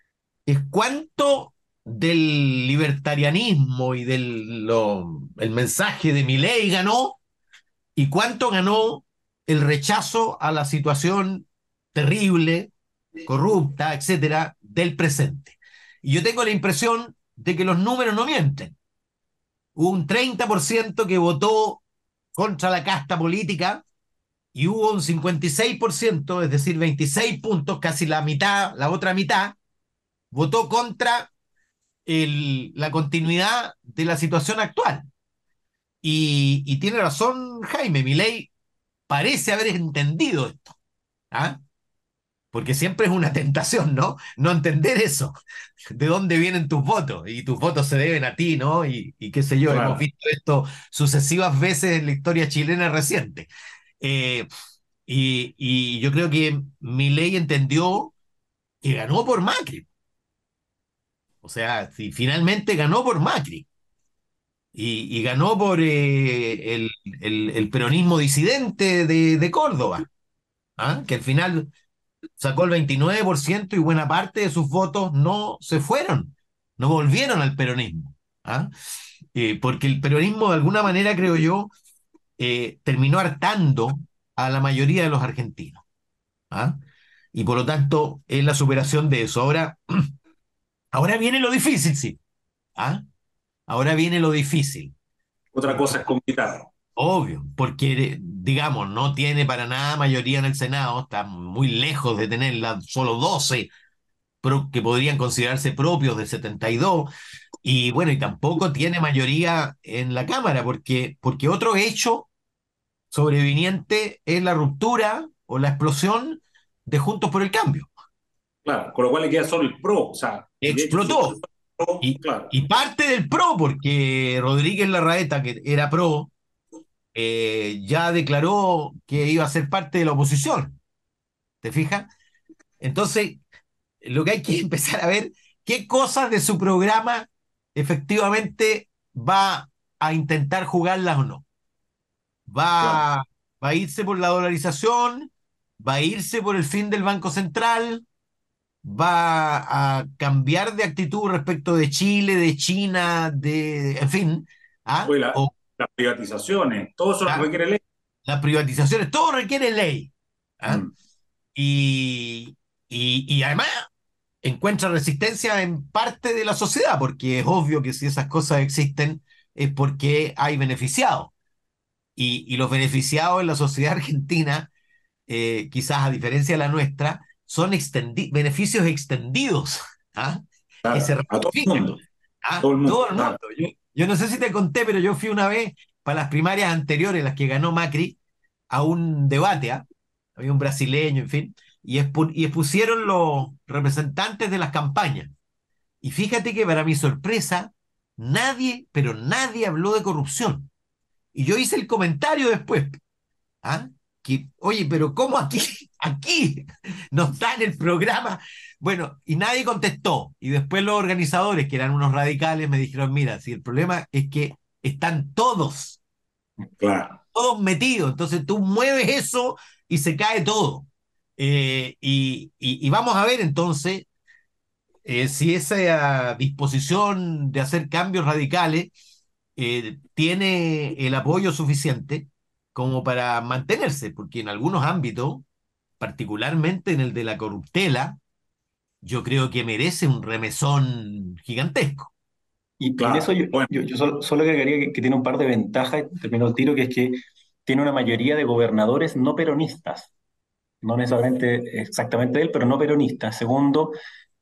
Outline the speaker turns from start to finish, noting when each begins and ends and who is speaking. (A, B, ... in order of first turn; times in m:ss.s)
0:00.4-0:07.2 A
0:08.0-0:12.7 A
0:13.3-0:18.7 A
0:19.8-0:21.8 A
0:22.3-0:23.8 A
0:24.5-0:29.6 A
0:30.3-0:31.3 A
0:32.0-0:35.1 A
0:36.0-0:38.5 A
0:39.1-0:40.8 A
0:41.3-0:41.6 A
0:42.5-0:45.3 A
0:45.9-0:53.5 A
0:49.7-0:50.0 B
0:54.0-0:54.5 A
0:55.1-0:58.1 A
0:58.8-0:59.9 A
1:01.4-1:03.7 A
1:04.7-1:10.1 A
1:10.8-1:11.7 A
1:12.4-1:18.7 A
1:19.3-1:21.7 A
1:22.4-1:25.8 A
1:26.5-1:26.8 A
1:27.3-1:30.1 A
1:30.9-1:32.2 A
1:32.8-1:33.0 A
1:33.7-1:34.9 A
1:35.5-1:36.7 B
1:35.7-1:36.0 A
1:37.0-1:43.7 A
1:44.4-1:47.1 A
1:47.6-1:52.3 A
1:53.1-1:57.9 A
1:58.6-2:02.5 B
2:00.6-2:01.4 A
2:02.0-2:06.3 A
2:07.1-2:10.8 A
2:11.6-2:12.1 A
2:12.8-2:13.4 A
2:14.0-2:21.4 A
2:22.5-2:28.0 A
2:28.8-2:35.5 A
2:35.0-2:37.8 B
2:38.2-2:40.8 A
2:40.6-2:40.9 B
2:41.5-2:43.9 A
2:44.4-2:51.3 A
2:52.2-2:54.7 A
2:55.3-3:08.2 A
3:00.8-3:02.0 B
3:02.6-3:03.4 B
3:08.7-3:09.8 A
3:10.4-3:15.3 A
3:16.0-3:20.7 A
3:21.3-3:23.0 A
3:23.6-3:36.0 A
3:36.8-3:37.2 B
3:37.3-3:44.1 A
3:45.0-3:48.9 A
3:49.6-3:55.4 A
3:56.0-3:58.2 A
3:59.0-4:02.1 A
4:02.8-4:10.1 C
4:03.0-4:03.7 B
4:10.8-4:13.9 C